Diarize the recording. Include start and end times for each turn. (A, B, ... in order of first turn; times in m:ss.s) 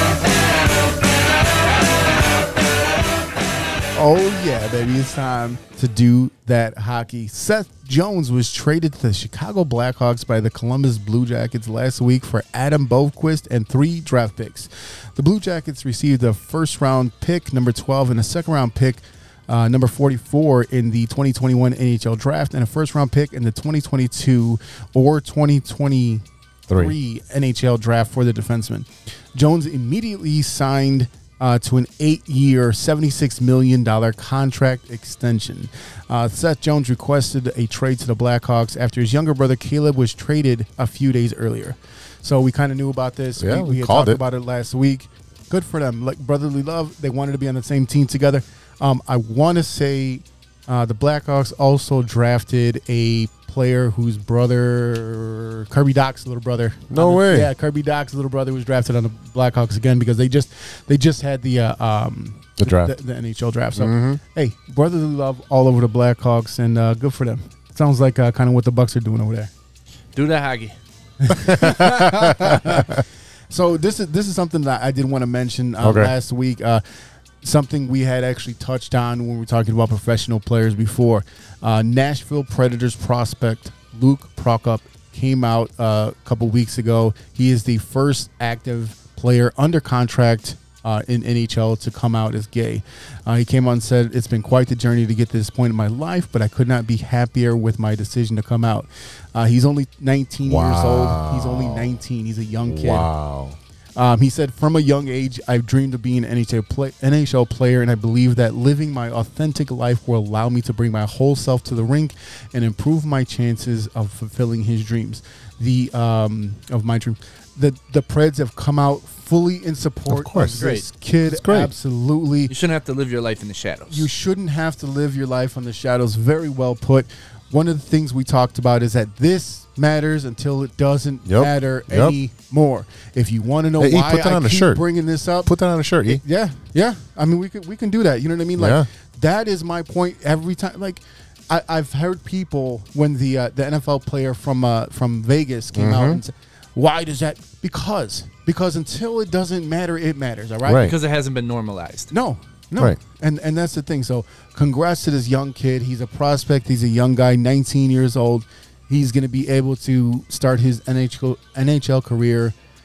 0:04.0-1:09.5 A
0:26.7-0:27.0 B
0:43.4-0:44.2 B
0:56.9-0:57.5 B
1:02.6-1:03.0 B
1:03.8-1:04.2 B
1:10.2-1:10.8 C
1:11.2-1:16.8 A
1:11.5-1:13.0 B
1:15.8-1:16.1 B
1:17.4-1:43.1 A
1:40.4-1:42.0 B
1:42.6-1:43.6 B
1:44.0-2:02.5 A
2:00.1-2:00.6 B
2:00.6-2:00.9 C
2:01.2-2:01.7 B
2:02.5-2:04.1 C
2:03.9-2:15.5 A
2:11.3-2:12.2 B
2:13.8-2:14.9 B
2:15.4-2:16.2 B
2:16.1-2:30.9 A
2:18.6-2:18.9 B
2:25.7-2:26.2 B
2:30.6-2:30.9 B
2:30.8-2:32.1 C
2:32.1-2:42.5 A